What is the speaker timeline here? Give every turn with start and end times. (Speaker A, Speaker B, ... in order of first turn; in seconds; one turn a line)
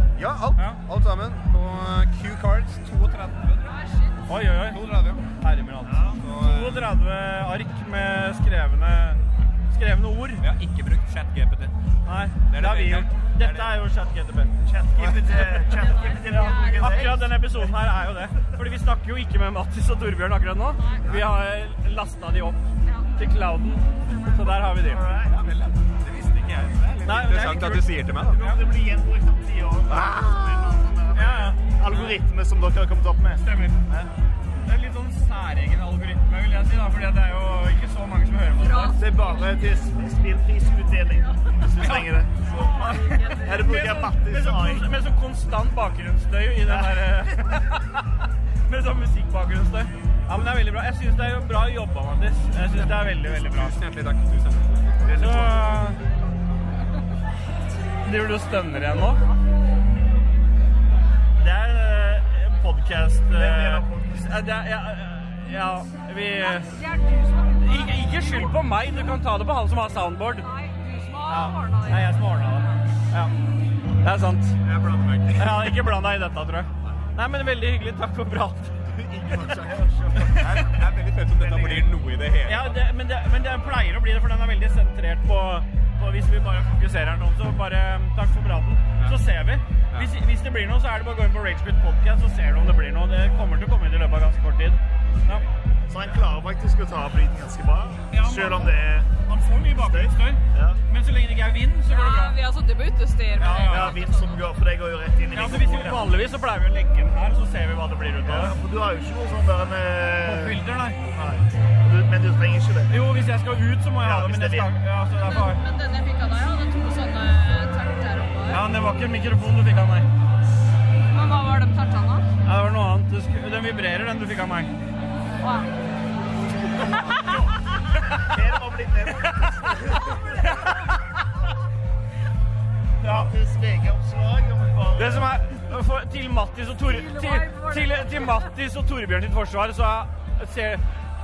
Speaker A: 0.2-3.7
Speaker B: 0.5-0.8
Speaker C: 3.6-4.2
Speaker B: 4.3-4.8
Speaker A: 4.7-5.2
Speaker B: 5.4-10.4
Speaker D: 5.8-6.1
Speaker A: 6.2-6.8
Speaker A: 10.4-11.7
Speaker B: 12.1-14.5
Speaker A: 12.5-13.7
Speaker D: 14.6-17.4
Speaker C: 15.7-17.1
Speaker B: 16.2-22.6
Speaker C: 20.8-21.1
Speaker C: 22.8-23.1
Speaker B: 23.1-25.0
Speaker D: 24.9-25.4
Speaker A: 25.2-28.4
Speaker B: 27.0-28.6
Speaker D: 28.4-34.1
Speaker A: 29.9-30.7
Speaker B: 31.1-32.2
Speaker B: 33.4-33.8
Speaker B: 34.6-39.0
Speaker C: 38.6-39.5
Speaker D: 38.9-42.9
Speaker B: 41.8-48.0
Speaker C: 42.5-43.7
Speaker D: 43.4-44.9
Speaker B: 48.7-53.8
Speaker A: 52.7-55.5
Speaker B: 55.1-56.0
Speaker B: 58.0-59.2
Speaker B: 61.4-66.7
Speaker D: 63.3-64.4
Speaker C: 66.4-68.5
Speaker B: 67.6-70.5
Speaker C: 70.4-72.8
Speaker B: 71.3-73.3
Speaker B: 74.0-74.6
Speaker A: 74.7-75.7
Speaker B: 75.3-78.8
Speaker A: 79.0-79.6
Speaker D: 79.5-80.6
Speaker B: 80.2-80.7
Speaker A: 80.3-82.7
Speaker B: 81.4-81.8
Speaker D: 81.5-81.8
Speaker B: 82.4-95.4
Speaker D: 95.9-99.1
Speaker B: 98.1-102.4
Speaker D: 99.9-100.8
Speaker C: 101.9-104.3
Speaker B: 103.4-104.0
Speaker D: 103.7-106.1
Speaker B: 105.3-108.5
Speaker D: 108.2-110.6
Speaker B: 110.2-111.0
Speaker D: 111.1-112.9
Speaker B: 112.9-115.6
Speaker D: 114.0-114.7
Speaker C: 115.2-118.6
Speaker B: 118.5-120.1
Speaker C: 121.1-122.2
Speaker B: 122.4-124.7
Speaker C: 125.4-125.7
Speaker D: 128.2-130.2
Speaker B: 130.4-130.8
Speaker B: 133.0-133.3
Speaker D: 133.0-135.3
Speaker B: 134.9-140.8
Speaker C: 136.9-138.5